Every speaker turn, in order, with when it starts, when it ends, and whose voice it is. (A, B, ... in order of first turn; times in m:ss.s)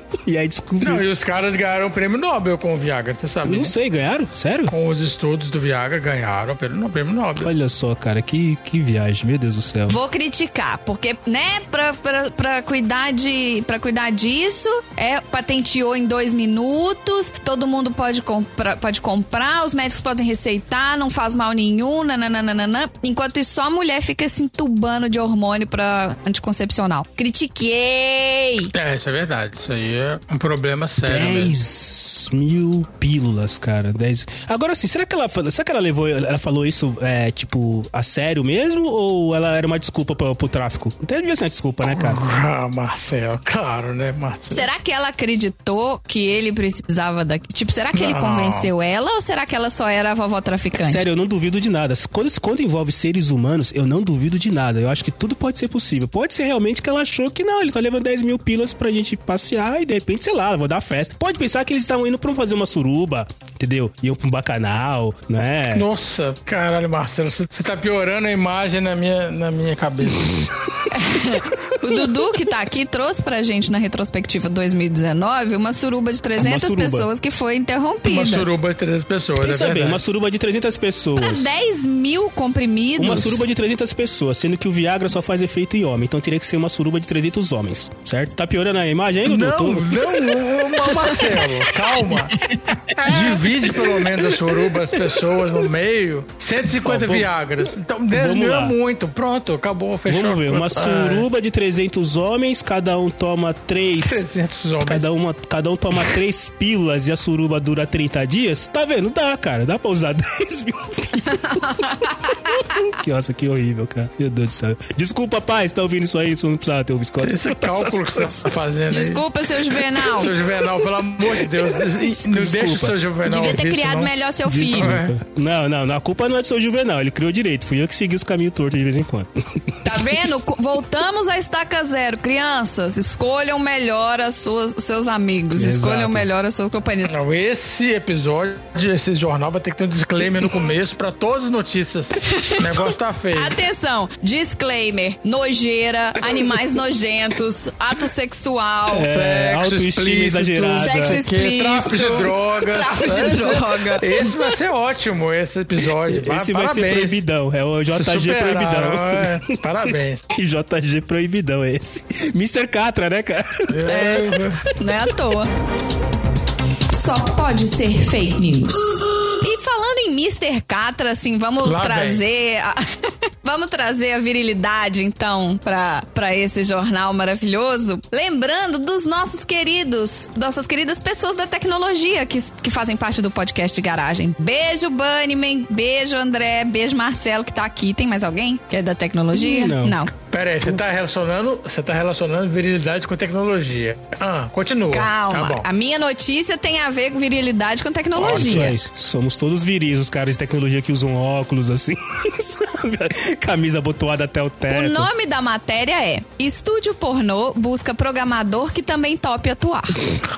0:00.3-0:01.0 A
0:00.8-0:03.7 B
0:03.4-0:04.7 A
0:04.7-0:07.5 B
0:07.4-0:10.0 A
0:09.9-0:28.7 C
0:28.7-0:31.6 B
0:31.0-0:42.2 A
0:41.8-0:44.7 B
0:44.5-0:51.0 C
0:47.9-0:48.7 B
0:50.8-1:05.9 A
1:05.7-1:10.5 B
1:10.9-1:18.5 C
1:16.4-1:17.1 A
1:18.0-1:20.0 B
1:19.4-1:21.6 A
1:21.2-1:23.4 C
1:23.0-1:30.5 A
1:29.2-1:32.4 B
1:33.0-1:33.4 A
1:33.0-1:41.3 B
1:36.8-1:37.3 A
1:38.1-1:38.8 A
1:40.1-1:44.3 A
1:44.0-1:45.1 B
1:44.8-1:51.6 A
1:51.4-1:52.7 C
1:52.7-1:58.6 A
1:57.2-1:59.2 B
1:58.9-2:00.4 C
2:00.0-2:04.1 B
2:01.3-2:03.0 A
2:03.3-2:05.0 C
2:04.5-2:10.0 A
2:04.7-2:05.2 B
2:09.8-2:17.1 C
2:15.6-2:16.3 A
2:17.0-2:23.6 B
2:22.2-2:29.1 C
2:28.9-2:31.2 A
2:29.1-2:37.2 B
2:30.8-2:34.3 C
2:36.0-2:43.9 A
2:37.9-2:40.3 B
2:43.7-2:44.6 B
2:43.8-2:45.5 C
2:46.9-3:10.1 C
2:51.6-2:52.2 B
3:09.3-3:10.0 A
3:10.3-3:15.7 B
3:14.9-3:18.8 C
3:18.2-3:25.1 A
3:18.2-3:18.5 B
3:24.7-3:30.2 C